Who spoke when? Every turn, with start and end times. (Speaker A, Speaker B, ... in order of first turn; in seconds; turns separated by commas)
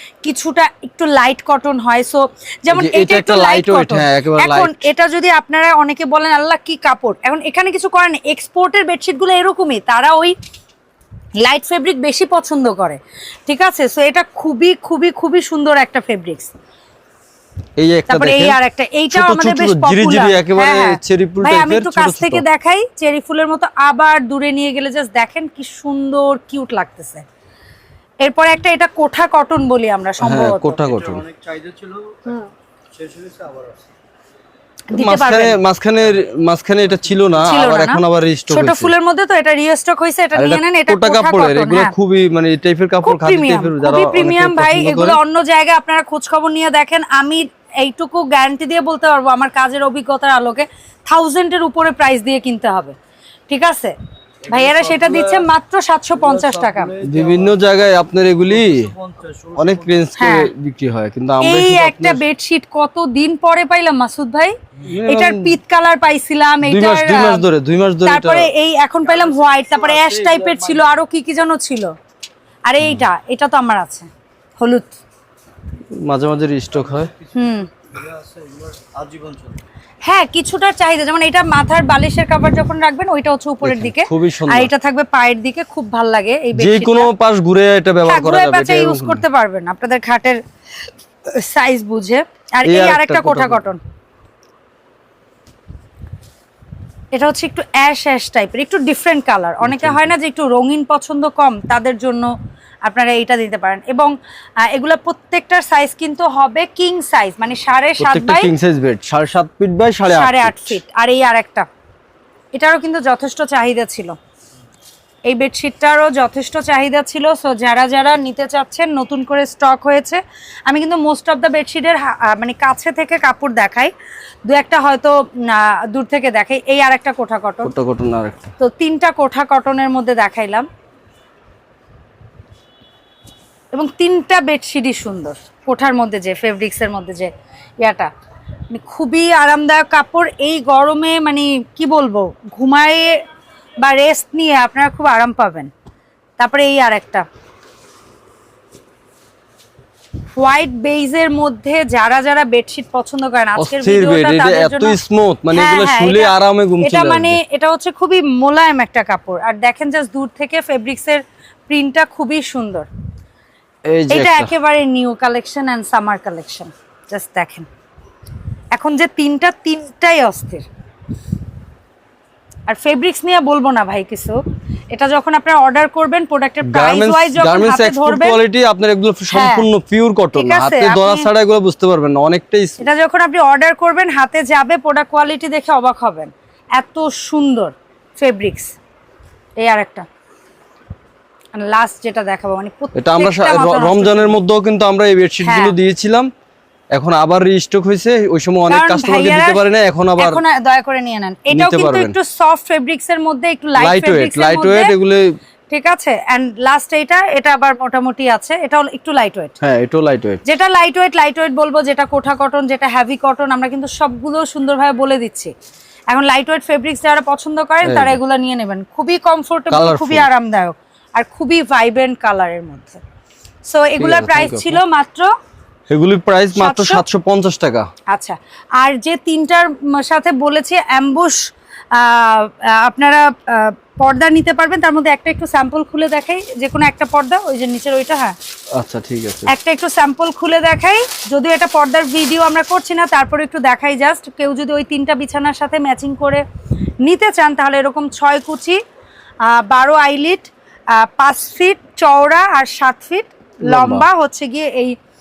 Speaker A: 0.2-10.4, Speaker B: 2.7-4.8, Speaker A: 11.4-16.5, Speaker B: 17.8-18.6, Speaker A: 18.1-27.2, Speaker B: 19.1-22.4, Speaker A: 28.2-30.8, Speaker B: 30.2-31.2, Speaker C: 30.9-33.8, Speaker A: 34.9-35.6, Speaker B: 34.9-38.9, Speaker A: 37.4-41.9, Speaker B: 40.4-45.2, Speaker A: 43.0-53.0, Speaker A: 53.5-53.9, Speaker C: 54.5-55.5, Speaker A: 54.5-57.0, Speaker C: 56.2-57.6, Speaker B: 57.0-58.9, Speaker C: 58.5-60.0, Speaker B: 59.6-62.2, Speaker A: 60.2-60.5, Speaker A: 61.4-64.5, Speaker B: 64.8-65.6, Speaker A: 65.1-67.5, Speaker B: 66.6-68.5, Speaker A: 68.0-71.9, Speaker C: 69.1-70.8, Speaker A: 72.7-75.0, Speaker B: 76.0-77.1, Speaker C: 76.8-77.2, Speaker A: 77.3-77.7, Speaker C: 77.9-79.6, Speaker A: 80.0-87.1, Speaker B: 83.6-84.7, Speaker B: 86.5-89.2, Speaker A: 88.1-90.4, Speaker A: 91.3-93.8, Speaker B: 92.7-93.6, Speaker A: 97.1-102.3, Speaker B: 99.6-100.1, Speaker A: 102.8-108.5, Speaker B: 108.0-110.8, Speaker A: 110.1-111.7, Speaker A: 112.5-114.2, Speaker A: 115.2-123.9, Speaker A: 124.5-127.7, Speaker B: 127.6-128.5, Speaker A: 128.6-130.7, Speaker A: 133.7-138.1, Speaker A: 138.7-143.2, Speaker A: 143.8-145.7, Speaker A: 146.4-147.2, Speaker A: 150.4-155.0, Speaker B: 153.6-157.4, Speaker A: 155.5-162.9, Speaker B: 163.9-164.5, Speaker A: 164.1-167.7, Speaker A: 168.7-170.6, Speaker A: 172.7-174.4, Speaker A: 174.9-178.4, Speaker B: 176.6-182.8, Speaker A: 179.3-179.7, Speaker A: 180.3-181.3, Speaker A: 182.8-188.7, Speaker A: 189.6-190.1, Speaker A: 191.6-194.4, Speaker B: 192.9-196.3, Speaker A: 195.4-195.7, Speaker B: 196.9-200.4, Speaker A: 198.7-199.6, Speaker A: 200.2-205.0, Speaker B: 201.5-202.1, Speaker B: 203.8-205.4, Speaker A: 205.7-209.6, Speaker B: 209.6-210.4, Speaker A: 210.4-215.5, Speaker A: 216.1-223.0, Speaker B: 217.8-218.2, Speaker B: 219.7-220.3, Speaker A: 223.7-225.3, Speaker B: 224.0-224.8, Speaker B: 225.9-227.9, Speaker A: 226.5-227.0, Speaker A: 228.1-238.4, Speaker B: 238.8-239.5, Speaker A: 239.5-246.4, Speaker A: 247.0-248.8, Speaker A: 249.5-255.0, Speaker B: 253.6-254.1